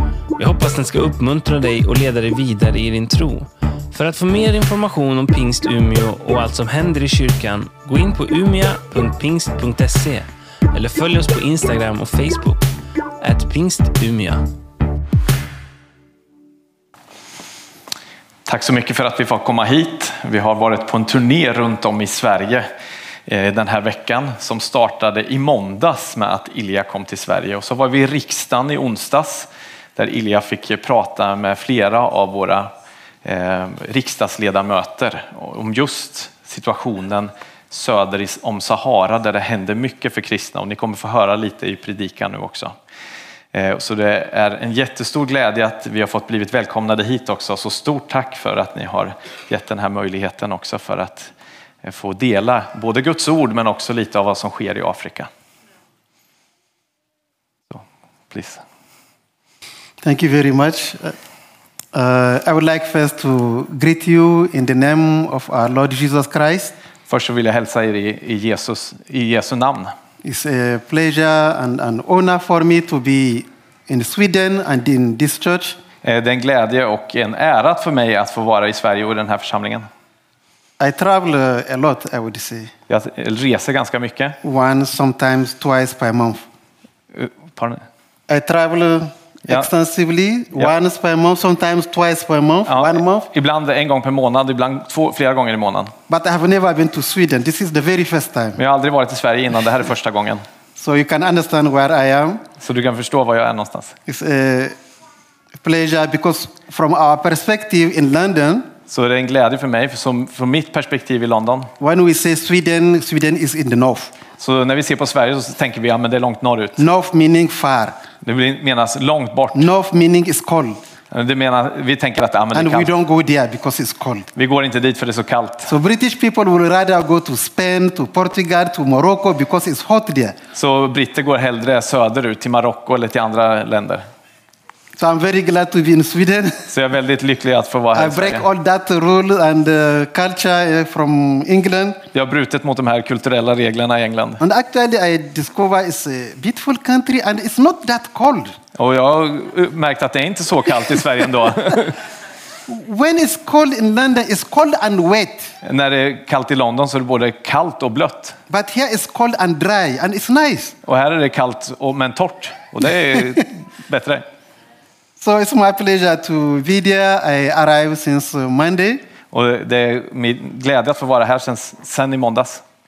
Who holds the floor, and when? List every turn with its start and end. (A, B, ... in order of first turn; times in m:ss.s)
0:00.4-0:12.7 A
0:13.2-0:14.5 A
0:18.5-0:22.7 B
0:23.3-0:32.7 B
0:33.2-0:42.7 B
0:43.5-0:51.3 B
0:51.8-0:55.3 B
0:57.7-0:58.6 B
1:00.0-1:01.2 C
1:01.9-1:06.7 C
1:07.1-1:09.9 B
1:10.2-1:15.8 C
1:16.0-1:19.9 B
1:20.8-1:22.7 C
1:22.9-1:24.4 B
1:24.4-1:26.4 C
1:27.1-1:27.8 B
1:28.3-1:33.3 C
1:32.7-1:35.9 B
1:36.1-1:38.6 C
1:38.6-1:40.4 B
1:40.8-1:42.4 C
1:42.6-1:44.0 B
1:44.1-1:44.8 C
1:45.6-1:48.7 C
1:48.9-1:51.7 B
1:51.8-1:54.1 C
1:54.4-1:56.8 B
1:56.8-1:58.0 C
1:58.2-1:59.7 B
1:59.5-2:00.8 C
2:01.1-2:02.9 B
2:02.5-2:04.3 C
2:04.4-2:05.7 B
2:05.7-2:10.4 C
2:10.5-2:14.0 B
2:15.0-2:16.7 C
2:16.7-2:18.5 B
2:18.0-2:22.0 C
2:22.1-2:24.4 B
2:24.4-2:28.6 C
2:28.8-2:32.0 B
2:32.7-2:35.5 C
2:35.6-2:38.4 B
2:38.5-2:40.8 C
2:40.9-2:44.2 B
2:45.2-2:49.0 C
2:49.3-2:52.6 B